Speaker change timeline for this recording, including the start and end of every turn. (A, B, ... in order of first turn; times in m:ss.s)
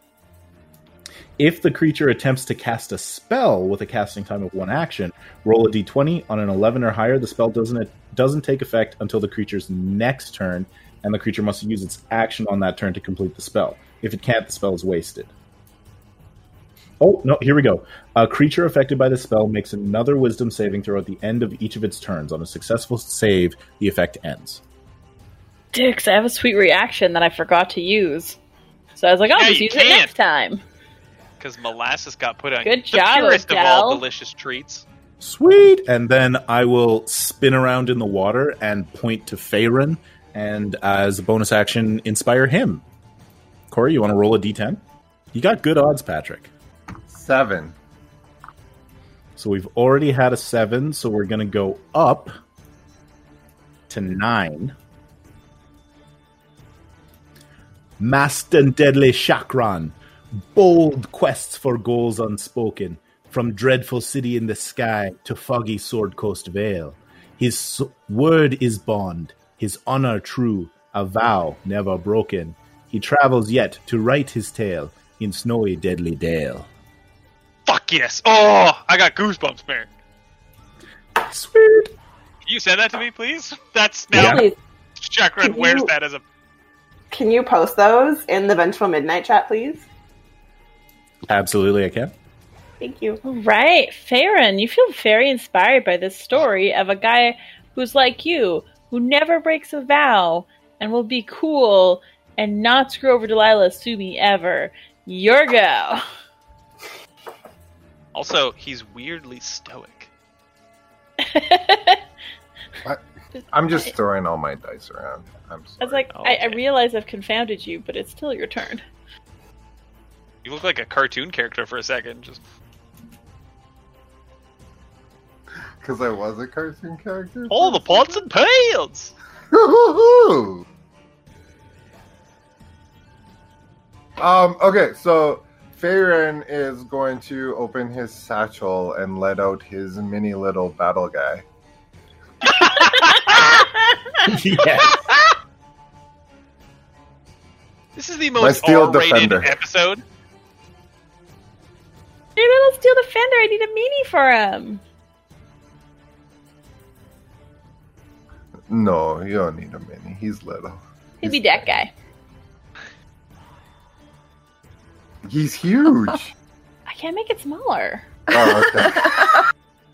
0:01.4-0:15.3 A
0:17.0-0:24.6 A
0:25.7-0:28.4 B
0:29.0-0:30.6 B
0:29.3-0:30.1 C
0:31.4-0:34.8 C
0:32.6-0:34.0 B
0:35.2-0:42.8 A
0:43.7-0:44.8 A
0:45.3-0:46.5 A
0:47.1-0:47.7 D
0:49.4-0:52.3 A
0:53.9-0:54.7 A
0:58.0-1:16.7 A
1:17.7-1:19.9 C
1:21.2-1:21.9 A
1:22.4-1:24.4 C
1:24.1-1:24.4 A
1:24.1-1:24.5 E
1:25.0-1:26.2 C
1:25.4-1:25.9 E
1:27.1-1:29.8 E
1:31.3-1:32.1 A
1:32.8-1:33.2 E
1:33.2-1:46.0 B
1:48.1-1:50.1 C
1:51.2-1:52.0 B
1:53.4-1:53.9 B
1:53.5-1:56.0 D
1:55.8-1:58.8 B
1:56.1-1:56.6 C
2:00.4-2:02.4 C
2:05.8-2:08.2 D
2:07.5-2:09.1 C
2:09.5-2:10.6 D
2:14.2-2:21.4 D
2:22.4-2:23.3 C
2:22.8-2:24.0 B
2:24.2-2:25.0 A
2:28.0-2:30.0 C
2:28.4-2:29.6 D
2:32.4-2:34.8 B
2:38.7-2:41.6 D
2:41.2-2:41.9 B
2:45.2-2:46.3 D
2:46.9-2:48.1 B
2:48.3-2:49.3 D